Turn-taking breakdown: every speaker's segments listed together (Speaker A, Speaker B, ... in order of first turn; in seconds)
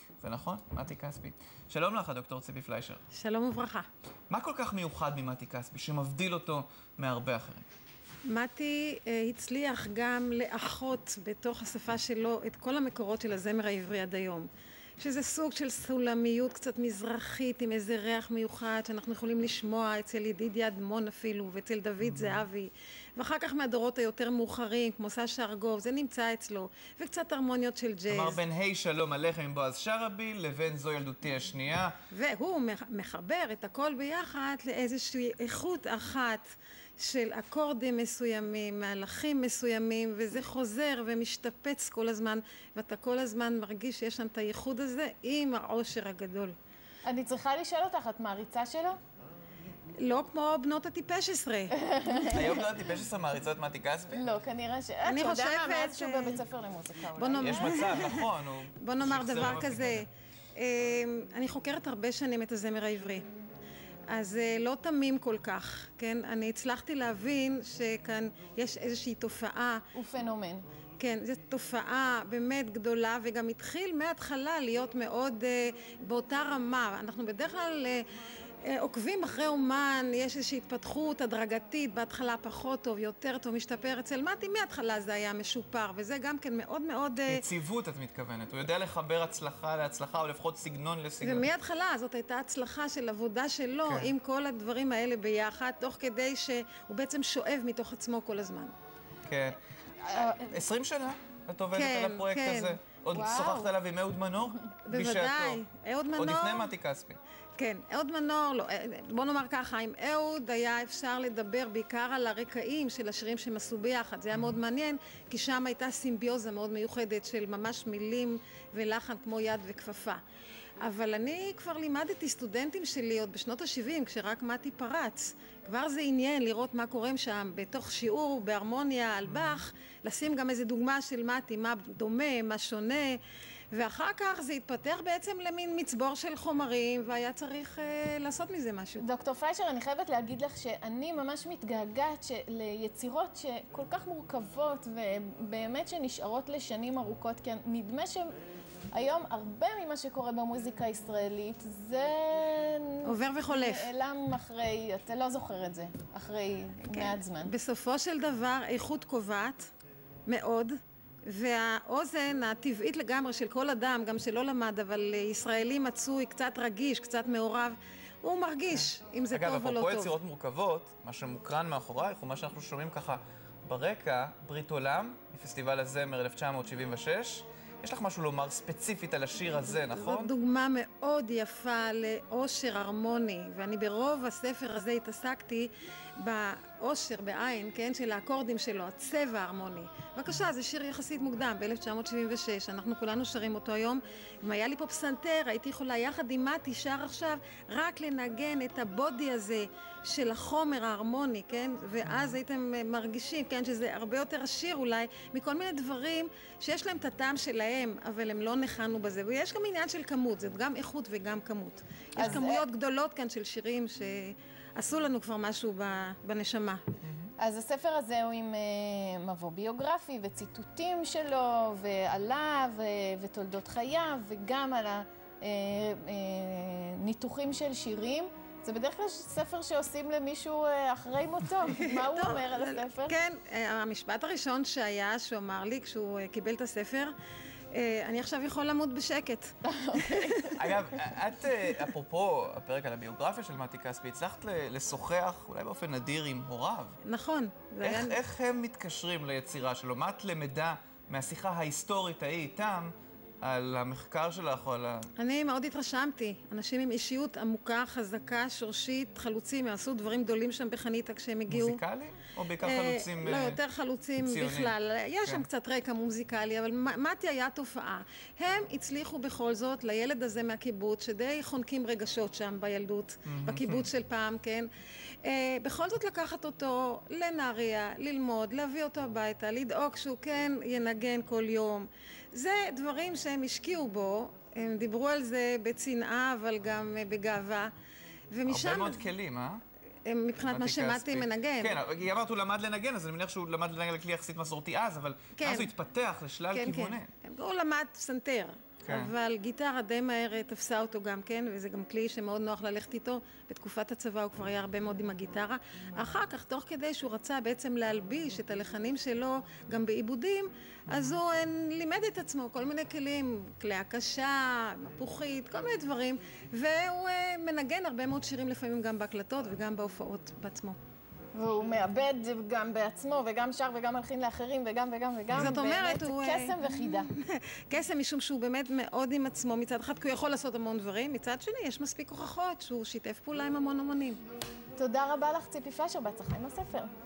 Speaker A: 0.2-3.0, 4.3-7.7, 22.0-22.4, 28.1-31.9, 52.1-54.3, 57.4-60.1, 87.3-91.5, 93.8-94.1, 99.2-99.6, 100.3-105.6, 106.2-107.2, 169.3-180.3, 217.0-217.3, 240.5-247.0, 247.8-255.1, 261.5-263.6, 264.2-265.5, 273.2-273.9, 288.5-289.6, 290.5-297.1, 298.8-299.1
Speaker B: 3.1-3.9, 8.3-28.4, 32.1-36.5, 37.0-46.5, 50.0-51.8, 55.0-56.4, 57.2-63.2, 64.1-69.8, 71.0-78.0, 78.7-87.4, 91.2-98.7, 101.7-102.8, 104.9-106.7, 107.6-120.2, 120.8-133.2, 133.7-139.0, 153.0-153.9, 156.9-159.7, 160.3-160.7, 161.2-170.1, 179.6-216.8, 231.7-237.1, 237.7-240.5, 247.0-248.2, 255.2-261.8, 262.6-274.7, 275.2-287.7, 288.3-289.0, 290.1-291.8, 295.4-295.7, 296.5-320.8, 325.3-334.2
Speaker C: 47.0-49.0, 51.8-52.6, 54.1-58.1, 69.9-70.6, 100.1-100.5, 103.1-103.7, 139.0-148.3, 148.9-157.5, 212.2-212.6, 217.4-233.2, 239.6-241.0, 321.3-327.1, 334.8-336.9